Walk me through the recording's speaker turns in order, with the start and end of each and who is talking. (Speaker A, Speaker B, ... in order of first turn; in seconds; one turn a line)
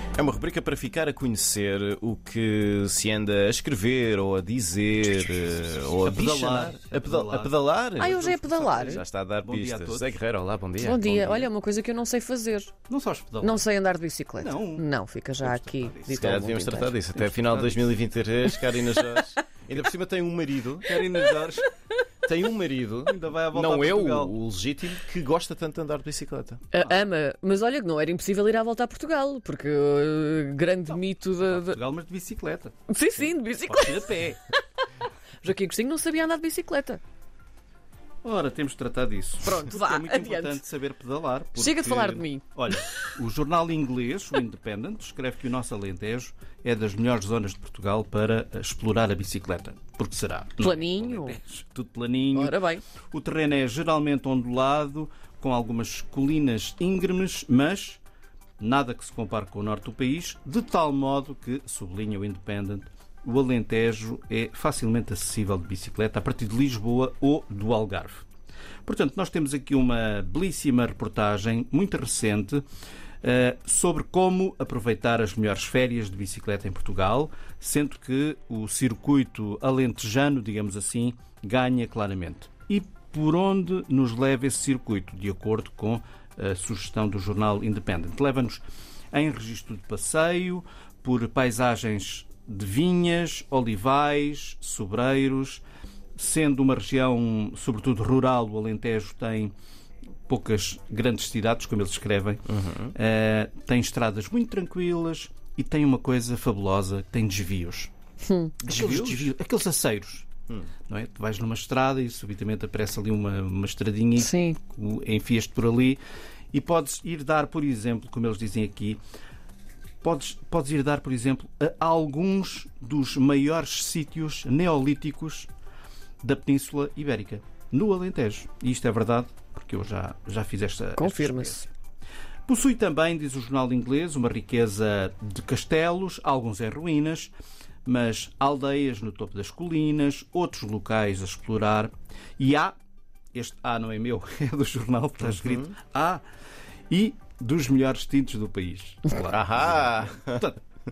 Speaker A: 0.1-11.5
Speaker B: 6.0-10.2
Speaker C: 8.0-9.0
Speaker C: 10.8-12.7
Speaker B: 12.9-13.7
Speaker C: 13.4-17.0
Speaker B: 14.4-14.8
Speaker B: 15.4-16.3
Speaker A: 16.2-21.0
Speaker B: 17.2-18.0
Speaker B: 20.8-21.7
Speaker A: 22.2-26.6
Speaker B: 23.1-24.3
Speaker C: 26.7-31.8
Speaker B: 30.9-34.4
Speaker C: 32.9-34.3
Speaker C: 35.4-37.0
Speaker B: 38.2-52.6
Speaker C: 39.4-40.6
Speaker C: 41.5-43.1
Speaker C: 50.6-51.4
Speaker C: 52.3-52.8
Speaker B: 53.1-58.0
Speaker B: 58.6-68.2
Speaker B: 68.8-72.6
Speaker B: 73.2-95.6
Speaker B: 96.2-99.5
Speaker B: 100.3-107.9
Speaker A: 102.5-102.9
Speaker C: 108.3-108.5
Speaker B: 108.6-110.3
Speaker A: 108.7-109.3
Speaker B: 110.9-116.0
Speaker C: 114.2-114.6
Speaker B: 116.5-119.0
Speaker B: 120.0-125.5
Speaker B: 126.2-131.7
Speaker C: 131.0-131.6
Speaker B: 132.4-137.3
Speaker B: 137.8-142.7
Speaker B: 143.3-146.2
Speaker A: 145.3-145.7
Speaker B: 146.9-150.6
Speaker A: 149.3-150.4